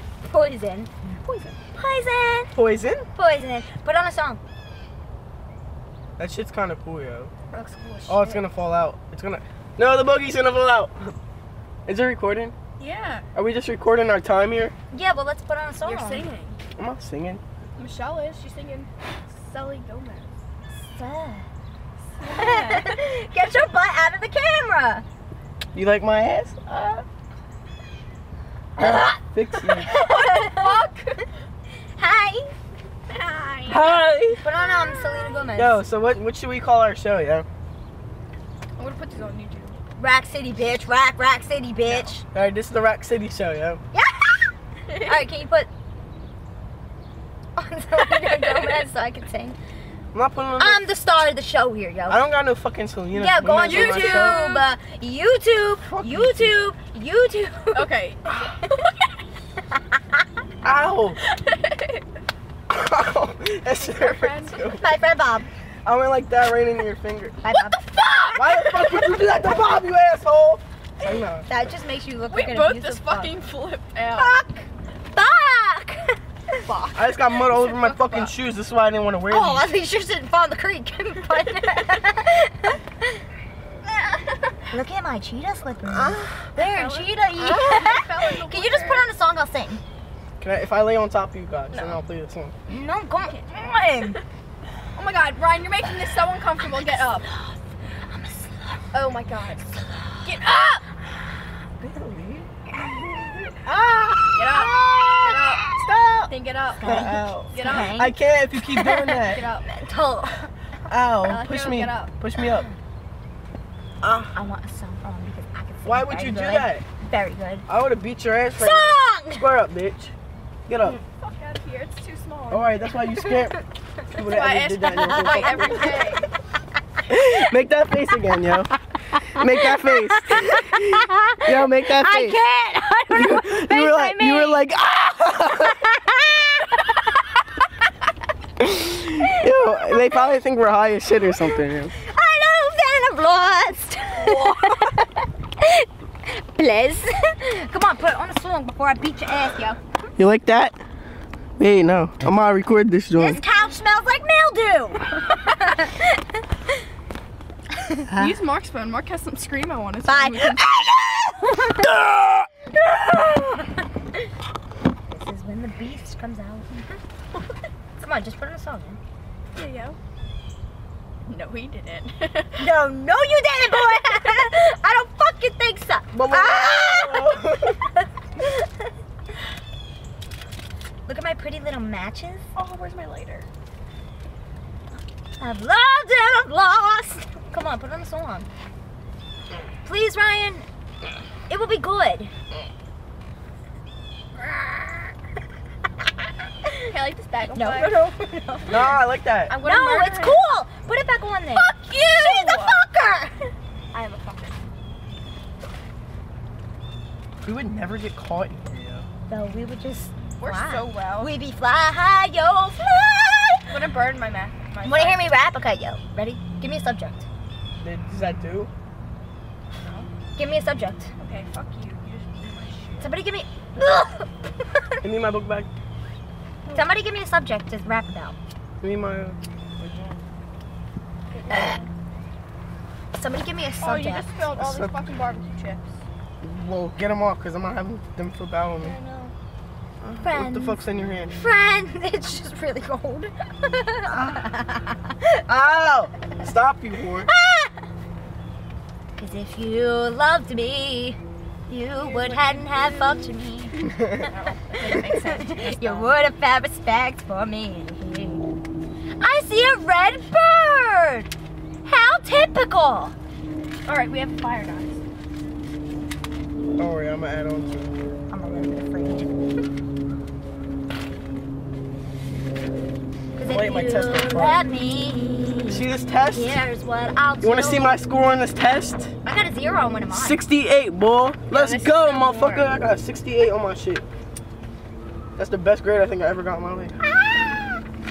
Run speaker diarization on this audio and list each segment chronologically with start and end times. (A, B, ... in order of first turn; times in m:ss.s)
0:00.3-0:00.9 A
0:01.2-0:01.6 B
0:01.7-0:02.6 A
0:02.5-0:03.1 C
0:03.1-0:04.4 A
0:06.2-0:07.3 C
0:07.5-0:08.4 B
0:08.1-0:11.1 C
0:11.8-0:12.5 C
0:12.8-0:13.2 B
0:13.3-0:14.7 C
0:14.9-0:16.2 A
0:15.8-0:16.6 B
0:16.8-0:17.4 C
0:17.8-0:20.3 B
0:20.8-0:21.4 A
0:22.1-0:23.0 B
0:22.3-0:25.0 A
0:25.7-0:27.0 C
0:28.8-0:30.8 A
0:28.8-0:29.9 C
0:29.8-0:31.2 B
0:32.0-0:32.5 A
0:33.1-0:34.0 B
0:33.7-0:34.4 C
0:34.4-0:35.8 A
0:34.5-0:35.4 B
0:35.6-0:37.5 C
0:38.8-0:39.8 B
0:40.0-0:42.2 A
0:41.9-0:43.8 C
0:43.9-0:45.7 A
0:44.9-0:45.2 B
0:47.5-0:49.6 A
0:48.0-0:48.9 B
0:50.1-0:50.8 C
0:50.6-0:52.2 A
0:52.1-0:54.4 C
0:53.1-0:57.9 A
0:53.6-0:54.6 B
0:55.9-0:56.6 C
0:57.7-0:59.0 B
1:00.6-1:01.2 C
1:01.2-1:02.0 B
1:02.7-1:04.8 C
1:03.8-1:04.7 B
1:04.8-1:05.5 A
1:05.8-1:07.4 C
1:07.4-1:08.9 A
1:07.5-1:08.4 B
1:08.3-1:11.5 C
1:11.4-1:13.3 A
1:12.3-1:14.3 B
1:14.1-1:16.6 A
1:16.6-1:18.3 B
1:16.9-1:19.7 C
1:19.3-1:23.2 A
1:23.9-1:24.6 B
1:24.7-1:29.8 A
1:26.5-1:29.1 B
1:30.4-1:32.5 C
1:31.7-1:32.0 B
1:32.7-1:34.2 A
1:33.2-1:34.2 B
1:34.9-1:37.3 B
1:36.8-1:38.8 A
1:38.9-1:39.7 B
1:40.2-1:40.8 B
1:41.8-1:42.5 C
1:42.7-1:43.0 A
1:43.6-1:45.9 A
1:44.4-1:45.7 B
1:45.7-1:49.4 C
1:46.3-1:48.0 B
1:46.8-1:48.2 A
1:48.7-1:50.5 A
1:49.2-1:49.7 B
1:50.9-1:52.7 C
1:51.2-1:52.1 B
1:52.4-1:52.7 A
1:54.0-1:54.3 C
1:54.3-1:57.6 A
1:55.8-1:56.8 C
1:57.7-2:00.1 C
1:58.6-1:59.4 A
2:00.7-2:01.0 C
2:00.9-2:02.9 B
2:02.5-2:03.6 C
2:04.1-2:06.0 C
2:04.2-2:06.3 B
2:05.0-2:06.0 A
2:07.1-2:12.4 C
2:09.1-2:14.7 A
2:13.1-2:15.8 C
2:15.5-2:16.9 A
2:18.6-2:21.9 C
2:19.2-2:20.2 A
2:21.9-2:29.8 A
2:24.1-2:24.9 B
2:30.2-2:30.8 C
2:31.6-2:33.4 C
2:33.2-2:36.4 A
2:37.8-2:38.3 A
2:38.0-2:40.6 B
2:40.0-2:43.8 A
2:45.1-2:47.0 A
2:48.0-2:49.0 A
2:49.6-2:50.0 B
2:51.3-2:52.8 B
2:52.6-2:58.8 A
2:56.1-2:57.8 C
3:01.0-3:02.5 A
3:02.5-3:03.4 B
3:05.4-3:08.5 A
3:09.8-3:10.6 A
3:11.5-3:12.3 A
3:16.9-3:18.0 B
3:17.5-3:18.9 A
3:18.7-3:19.5 C
3:19.5-3:20.4 B
3:19.6-3:23.5 A
3:21.5-3:22.8 B
3:23.9-3:24.6 B
3:27.4-3:29.0 C
3:29.3-3:33.8 A
3:30.4-3:31.3 B
3:33.7-3:35.4 B
3:34.8-3:37.3 A
3:37.8-3:38.7 C
3:39.8-3:40.1 B
3:40.4-3:41.1 A
3:41.2-3:43.2 B
3:43.0-3:44.3 A
3:45.0-3:45.7 C
3:46.6-3:46.9 B
3:46.7-3:48.4 A
3:48.8-3:50.1 C
3:51.3-3:51.9 B
3:51.5-3:51.8 A
3:53.1-3:54.3 A
3:53.8-3:56.0 B
3:54.6-3:55.0 C
3:56.4-3:59.0 C
3:58.8-3:59.3 B
4:00.0-4:01.4 C
4:00.2-4:06.3 A
4:06.3-4:07.3 C
4:07.3-4:07.7 A
4:09.2-4:13.8 A
4:11.8-4:13.4 B
4:13.9-4:14.2 C
4:14.0-4:16.1 B
4:14.8-4:18.4 A
4:19.2-4:21.3 A
4:21.8-4:23.1 A
4:23.8-4:25.0 B
4:26.8-4:27.9 C
4:28.3-4:29.4 A
4:33.4-4:38.0 A
4:33.4-4:34.6 C
4:35.7-4:36.6 C
4:37.4-4:39.1 C
4:39.2-4:40.4 A
4:40.1-4:44.0 C
4:41.5-4:42.7 B
4:45.4-4:47.0 C